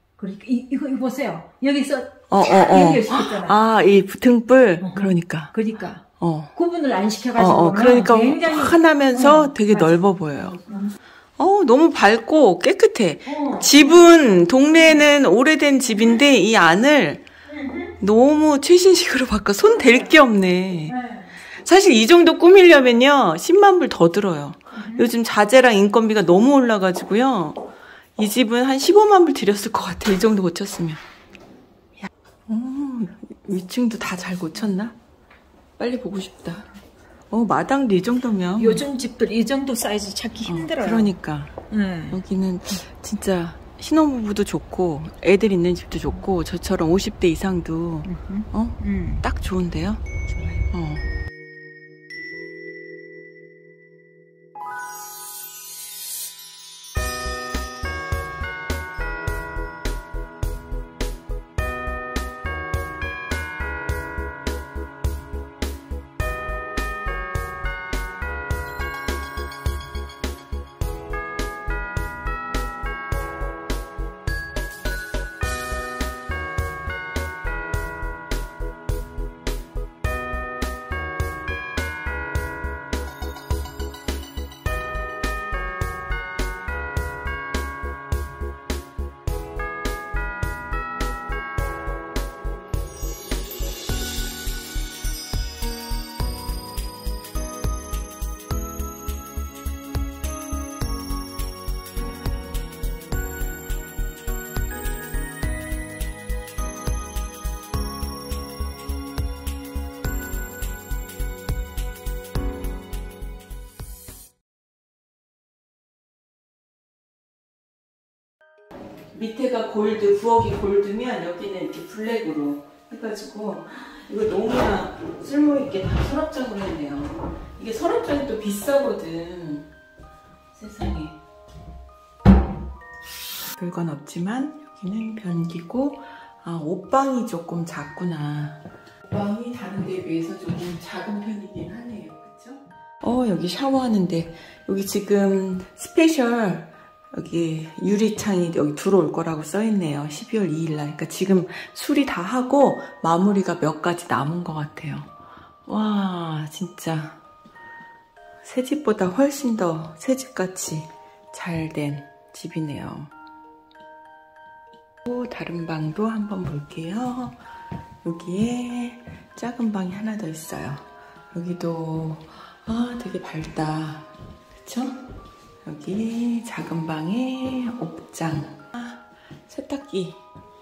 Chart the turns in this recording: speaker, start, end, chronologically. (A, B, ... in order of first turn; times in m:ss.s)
0:00.2-0:03.6 A
0:02.3-0:05.5 B
0:04.8-0:06.0 A
0:06.2-0:06.5 B
0:06.5-0:10.9 A
0:07.4-0:10.6 B
0:11.4-0:17.2 B
0:13.2-0:14.0 A
0:17.5-0:17.9 A
0:18.0-0:20.9 B
0:19.6-0:20.1 A
0:20.8-0:21.4 A
0:21.6-0:27.6 B
0:24.7-0:25.1 A
0:28.2-0:31.0 B
0:32.5-0:34.9 B
0:35.8-0:36.7 B
0:37.3-0:38.8 B
0:38.6-0:41.1 A
0:40.4-0:41.5 B
0:41.7-0:42.2 A
0:42.1-0:50.0 B
0:48.0-0:49.2 A
0:50.6-0:51.0 B
1:59.1-2:09.7 B
2:10.5-2:11.2 B
2:13.5-2:35.1 B
2:35.7-2:37.2 B
2:38.4-2:43.1 B
2:45.0-2:47.4 B
2:48.0-2:55.0 B
2:55.6-3:00.2 B